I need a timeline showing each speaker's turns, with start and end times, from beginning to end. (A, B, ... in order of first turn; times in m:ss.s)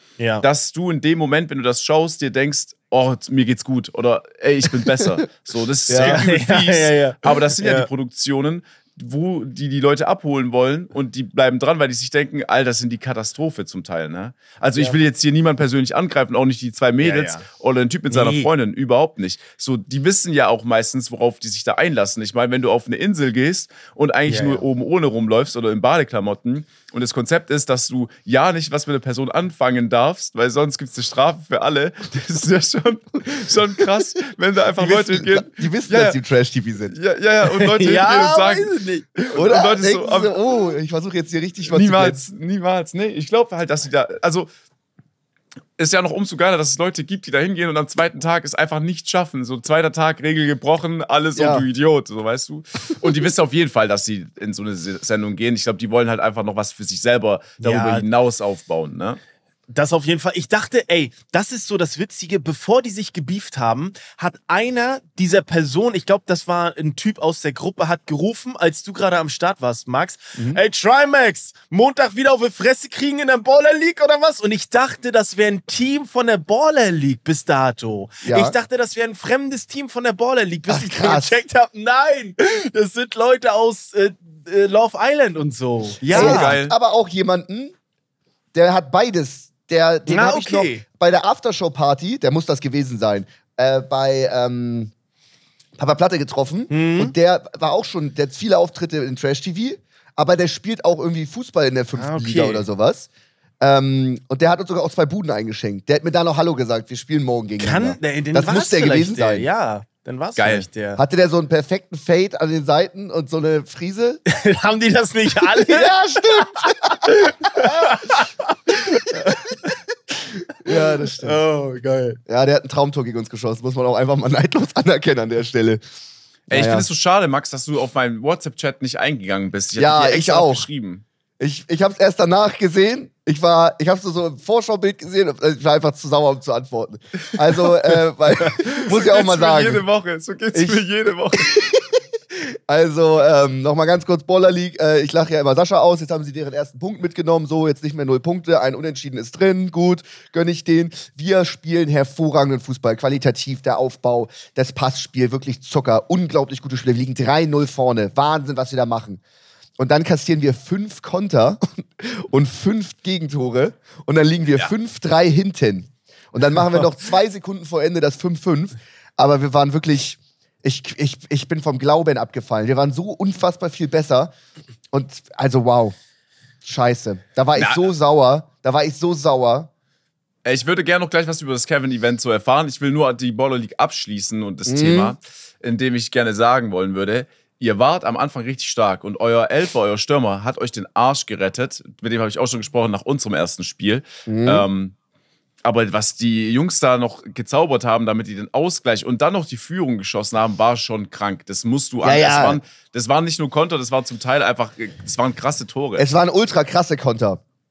0:00.2-0:00.5 A
0:00.4-0:36.2 B
0:05.9-0:06.3 C
0:06.0-0:07.9 A
0:17.0-0:17.5 A
0:18.1-0:18.5 A
0:24.3-0:24.6 A
0:34.8-0:37.0 C
0:36.9-0:40.4 B
0:37.5-0:39.2 A
0:39.4-0:42.2 C
0:41.7-0:44.5 B
0:45.8-0:59.2 B
0:51.4-0:51.7 C
0:57.6-0:58.1 A
0:59.7-1:26.6 A
1:18.2-1:18.5 C
1:20.7-1:21.4 C
1:26.1-1:26.7 B
1:26.1-1:27.7 C
1:28.5-1:34.9 C
1:30.1-1:30.8 A
1:35.8-1:43.1 C
1:36.7-1:37.2 A
1:41.9-1:42.7 A
1:43.6-1:49.5 C
1:47.6-1:51.0 A
1:50.4-1:50.7 B
1:51.0-1:54.2 C
1:54.3-1:59.7 A
1:55.5-1:57.9 C
2:00.6-2:01.4 C
2:00.7-2:02.2 A
2:02.3-2:05.8 C
2:06.5-2:06.9 C
2:06.5-2:11.0 B
2:09.8-2:10.7 C
2:11.4-2:19.8 C
2:18.4-2:21.6 B
2:20.5-2:20.8 C
2:21.4-2:39.2 C
2:39.8-2:54.3 C
2:54.9-2:56.0 C
2:56.6-2:59.7 C
2:57.6-2:57.9 B
3:00.4-3:14.9 B
3:04.7-3:05.2 C
3:14.3-3:14.7 C
3:15.6-3:26.1 B
3:22.0-3:22.6 C
3:26.0-3:27.4 C